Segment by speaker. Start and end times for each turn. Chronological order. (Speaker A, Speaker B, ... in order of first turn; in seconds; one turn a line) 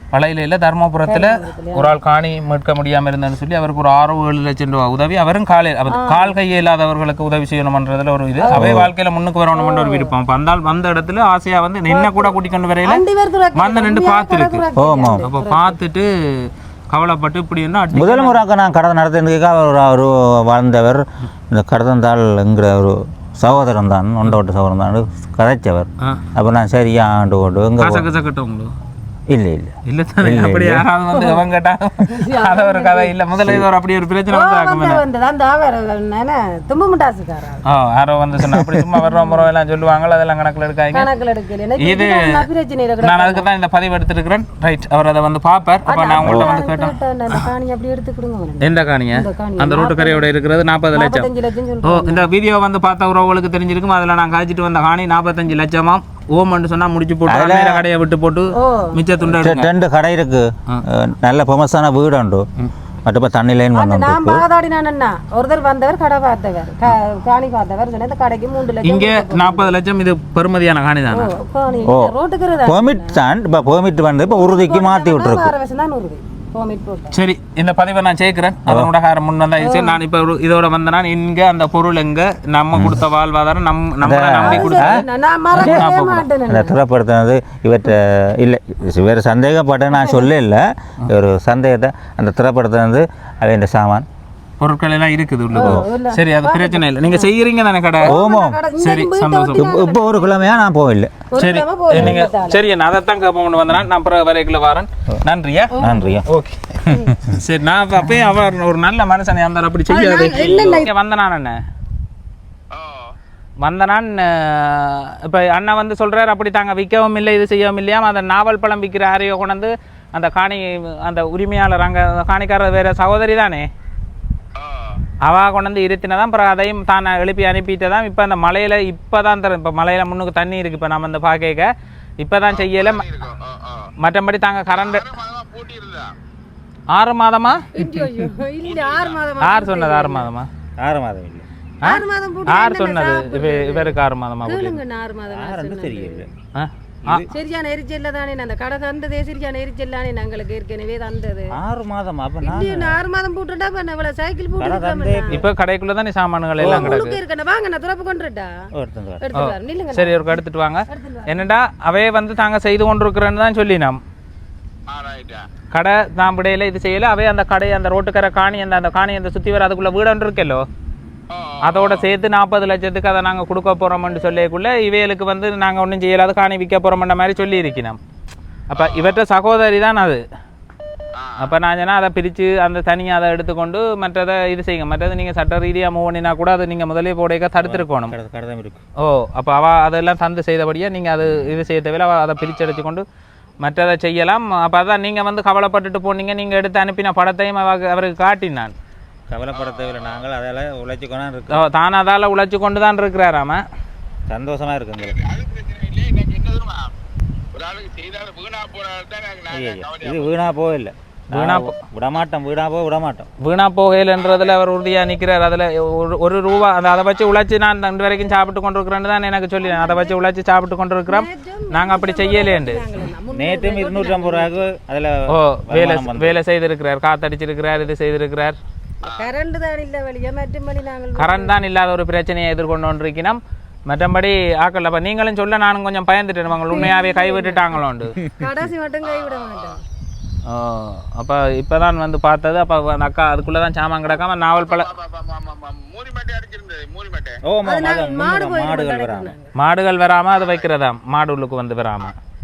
Speaker A: 0.1-13.0
Speaker B: 1.0-2.0
Speaker B: 5.9-6.3
Speaker B: 8.4-8.7
Speaker C: 8.5-8.9
Speaker B: 9.5-10.1
Speaker B: 11.9-15.8
Speaker A: 13.5-14.7
Speaker C: 14.8-15.2
Speaker A: 15.2-18.4
Speaker C: 17.9-28.1
Speaker A: 27.8-28.7
Speaker C: 29.3-30.9
Speaker A: 29.9-35.0
Speaker B: 31.1-31.4
Speaker B: 32.0-33.1
Speaker B: 34.3-37.6
Speaker A: 37.6-41.1
Speaker C: 38.4-38.9
Speaker B: 39.0-39.4
Speaker B: 40.9-43.5
Speaker A: 41.8-42.4
Speaker A: 43.0-46.9
Speaker B: 45.8-50.3
Speaker C: 46.2-46.5
Speaker A: 48.6-51.3
Speaker B: 50.9-52.3
Speaker A: 51.8-59.7
Speaker C: 57.3-57.8
Speaker B: 58.5-59.0
Speaker C: 59.2-62.5
Speaker C: 63.0-64.4
Speaker B: 63.7-69.7
Speaker A: 68.8-71.3
Speaker B: 71.1-73.2
Speaker C: 71.8-72.1
Speaker C: 72.6-75.5
Speaker B: 74.2-77.2
Speaker A: 77.1-86.3
Speaker B: 79.6-80.0
Speaker C: 82.7-83.0
Speaker C: 84.0-85.0
Speaker B: 84.4-86.8
Speaker C: 85.5-85.9
Speaker C: 86.5-94.0
Speaker B: 89.9-90.3
Speaker A: 94.6-98.2
Speaker B: 95.5-97.3
Speaker C: 95.5-95.8
Speaker C: 98.0-98.6
Speaker B: 98.0-100.5
Speaker A: 98.8-99.7
Speaker C: 99.5-101.2
Speaker B: 101.3-102.6
Speaker A: 101.3-111.6
Speaker B: 105.7-106.2
Speaker C: 105.8-106.2
Speaker C: 106.9-107.2
Speaker B: 109.9-110.9
Speaker D: 112.7-113.1
Speaker A: 113.6-123.7
Speaker D: 124.5-125.0
Speaker A: 125.2-133.2
Speaker D: 132.5-133.9
Speaker A: 134.0-135.2
Speaker D: 134.8-136.1
Speaker A: 136.9-137.7
Speaker B: 137.7-140.3
Speaker D: 138.6-139.2
Speaker A: 139.4-140.5
Speaker C: 140.8-141.4
Speaker A: 141.8-144.8
Speaker B: 141.8-146.3
Speaker C: 145.3-146.3
Speaker A: 146.5-147.2
Speaker B: 147.3-151.5
Speaker C: 151.6-153.0
Speaker B: 152.4-155.4
Speaker C: 154.6-155.4
Speaker A: 155.3-157.2
Speaker C: 156.6-157.0
Speaker B: 156.6-158.5
Speaker C: 158.8-159.3
Speaker B: 159.2-160.4
Speaker A: 159.3-164.0
Speaker B: 160.9-161.5
Speaker D: 164.9-165.5
Speaker A: 165.7-170.6
Speaker D: 171.3-172.1
Speaker A: 171.6-178.0
Speaker A: 178.7-180.2
Speaker D: 178.8-179.2
Speaker D: 181.1-181.5
Speaker A: 181.4-188.1
Speaker C: 187.6-188.8
Speaker A: 189.0-193.0
Speaker A: 193.6-198.7
Speaker C: 199.3-201.6
Speaker D: 199.6-200.2
Speaker A: 201.5-203.6
Speaker C: 204.3-205.2
Speaker D: 205.2-206.9
Speaker D: 207.5-210.2
Speaker C: 209.5-213.3
Speaker A: 211.3-211.8
Speaker A: 213.4-222.9
Speaker B: 219.6-220.2
Speaker B: 221.1-224.7
Speaker C: 223.3-226.4
Speaker A: 225.3-228.6
Speaker B: 229.1-231.6
Speaker A: 231.2-238.2
Speaker B: 236.7-239.8
Speaker C: 238.2-238.5
Speaker D: 239.1-239.7
Speaker A: 240.4-244.9
Speaker D: 244.7-247.4
Speaker C: 247.4-249.3
Speaker B: 247.6-249.5
Speaker A: 249.6-252.2